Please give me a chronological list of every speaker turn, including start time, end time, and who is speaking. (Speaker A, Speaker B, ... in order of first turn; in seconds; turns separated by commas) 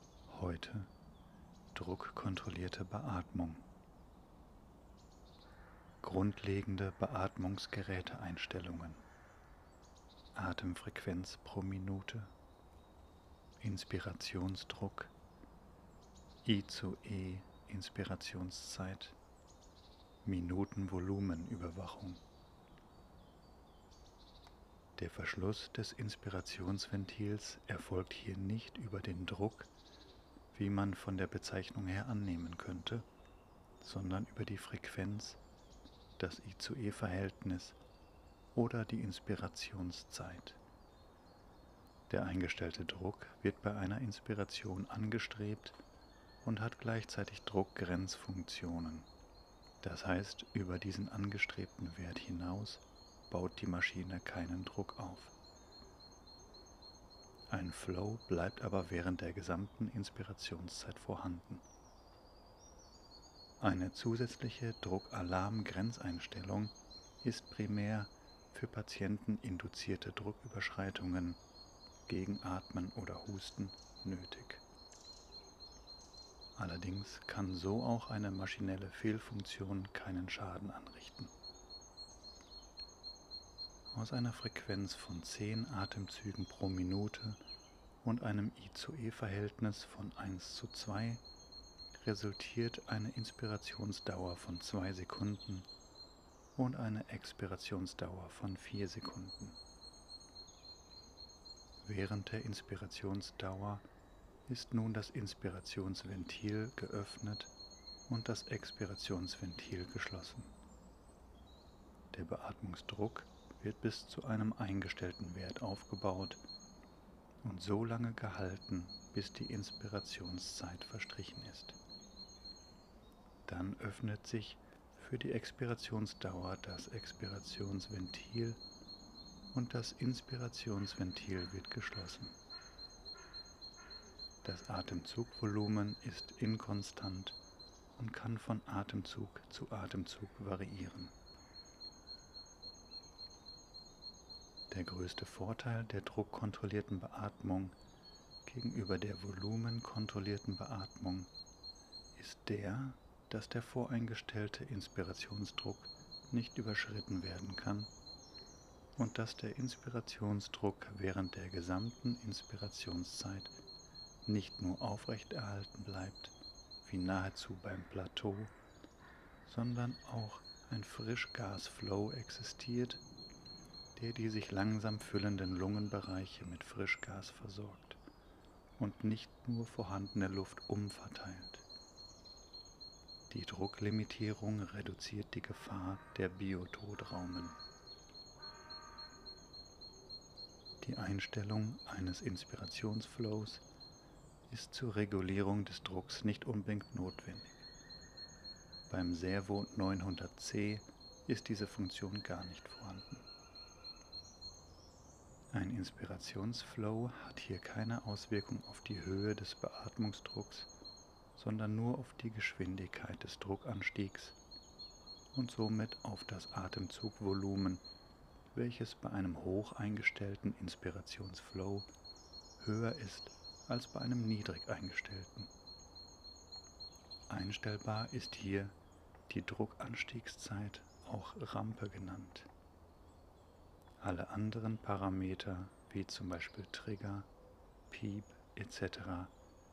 Speaker A: 0.3-0.9, Speaker A: 1.7-3.7, Speaker A: 6.0-9.1, Speaker A: 10.3-12.3, Speaker A: 13.6-15.1, Speaker A: 16.4-19.2, Speaker A: 20.2-22.2, Speaker A: 25.0-29.7, Speaker A: 30.5-33.1, Speaker A: 33.8-35.4, Speaker A: 36.2-37.8, Speaker A: 38.5-40.6, Speaker A: 42.1-45.8, Speaker A: 46.4-49.1, Speaker A: 49.8-55.3, Speaker A: 57.5-61.6, Speaker A: 63.6-71.4, Speaker A: 72.1-74.6, Speaker A: 76.6-81.3, Speaker A: 83.9-87.4, Speaker A: 88.0-91.2, Speaker A: 91.9-95.7, Speaker A: 96.6-99.6, Speaker A: 101.8-103.8, Speaker A: 104.5-107.5, Speaker A: 108.1-110.5, Speaker A: 112.1-116.4, Speaker A: 117.4-121.8, Speaker A: 123.5-128.6, Speaker A: 129.5-132.4, Speaker A: 134.4-137.4, Speaker A: 138.0-141.1, Speaker A: 144.7-147.8, Speaker A: 148.4-151.3, Speaker A: 152.2-157.9, Speaker A: 159.0-163.5, Speaker A: 164.2-168.5, Speaker A: 169.4-173.0, Speaker A: 174.0-178.0, Speaker A: 178.8-181.7, Speaker A: 183.3-187.6, Speaker A: 190.8-193.6, Speaker A: 194.5-197.7, Speaker A: 198.9-203.3, Speaker A: 205.5-210.7, Speaker A: 211.4-214.4, Speaker A: 215.3-217.8, Speaker A: 218.5-221.9, Speaker A: 222.6-225.5, Speaker A: 227.3-228.8, Speaker A: 229.3-232.5, Speaker A: 234.0-237.3, Speaker A: 237.9-239.3